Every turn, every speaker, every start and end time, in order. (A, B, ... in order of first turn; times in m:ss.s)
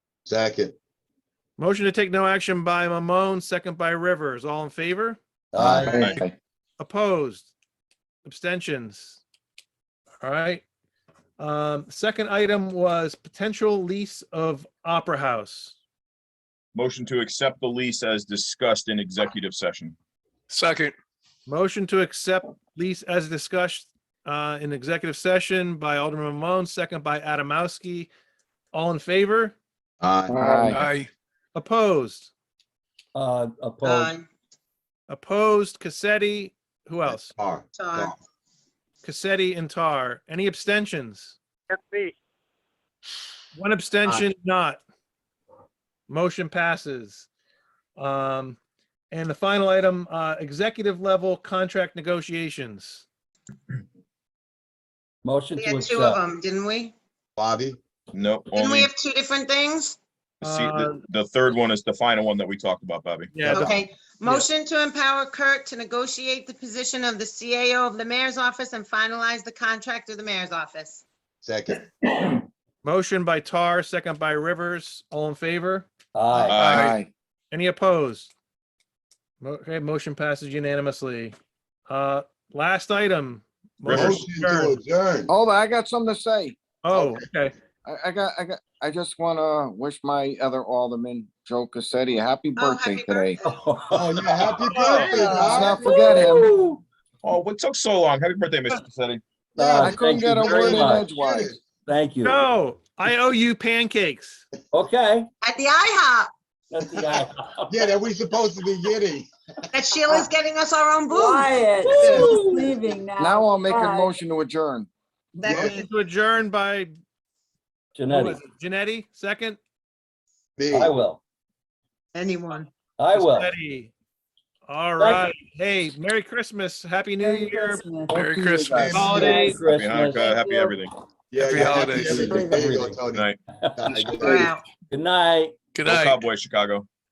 0:00.2-0:00.8 A
0:01.6-0:05.2 B
0:05.5-0:06.1 C
0:05.6-0:06.3 D
0:05.8-0:06.2 E
0:06.8-0:07.5 B
0:08.2-0:09.2 B
0:10.2-0:10.6 B
0:11.4-0:15.8 B
0:16.7-0:20.0 E
0:20.5-0:20.9 F
0:21.5-0:28.1 B
0:28.7-0:29.6 B
0:30.0-0:30.7 A
0:30.3-0:30.8 D
0:30.7-0:31.1 F
0:31.5-0:32.3 B
0:33.1-0:34.1 C
0:33.8-0:34.3 G
0:35.1-0:37.3 B
0:37.0-0:38.2 A
0:37.7-0:38.2 G
0:39.0-0:41.4 B
0:43.5-0:44.8 B
0:46.1-0:47.3 B
0:48.0-0:48.6 B
0:49.1-0:53.0 B
0:55.2-0:56.2 C
0:55.6-0:56.9 G
0:57.4-0:57.8 A
0:58.1-0:58.9 E
0:58.5-1:00.0 G
1:00.4-1:03.6 E
1:00.4-1:01.0 B
1:03.3-1:04.5 B
1:03.4-1:11.0 G
1:11.4-1:11.8 A
1:12.8-1:15.9 B
1:16.1-1:16.6 C
1:16.3-1:17.1 D
1:16.5-1:17.0 E
1:16.6-1:16.9 B
1:17.5-1:18.3 B
1:19.4-1:21.3 B
1:21.9-1:24.8 B
1:23.8-1:25.3 A
1:25.3-1:27.0 D
1:26.8-1:27.5 B
1:27.8-1:33.4 D
1:32.6-1:33.6 G
1:33.4-1:36.8 C
1:33.9-1:35.8 A
1:34.7-1:35.7 B
1:35.0-1:35.5 G
1:35.4-1:36.5 D
1:37.2-1:39.2 E
1:39.6-1:41.1 C
1:39.6-1:41.6 A
1:39.8-1:41.6 D
1:41.8-1:42.4 C
1:42.2-1:44.4 B
1:44.7-1:45.3 C
1:45.4-1:46.3 G
1:46.7-1:47.9 C
1:47.7-1:49.3 A
1:49.7-1:52.3 G
1:51.1-1:54.2 H
1:51.8-1:52.7 C
1:53.2-1:54.9 D
1:55.4-1:55.9 G
1:55.4-1:55.8 A
1:55.5-1:56.9 B
1:58.0-1:58.4 C
1:58.1-1:59.6 B
2:00.6-2:00.9 A
2:00.7-2:01.2 C
2:02.1-2:02.7 G
2:03.0-2:03.5 C
2:03.1-2:03.9 B
2:04.7-2:07.8 B
2:05.0-2:05.3 C
2:07.2-2:08.2 H
2:08.1-2:09.3 D
2:08.2-2:09.5 F
2:08.7-2:09.4 A
2:08.9-2:09.6 B
2:09.1-2:09.6 H
2:09.5-2:10.3 C
2:09.6-2:10.9 E
2:10.1-2:10.8 H
2:11.3-2:13.2 A
2:11.4-2:12.4 F
2:12.0-2:12.7 H
2:12.6-2:13.0 C
2:13.1-2:13.4 E
2:13.6-2:14.3 C
2:13.8-2:14.5 A
2:14.2-2:14.6 G
2:14.9-2:15.6 C
2:15.7-2:16.3 F
2:15.8-2:16.8 E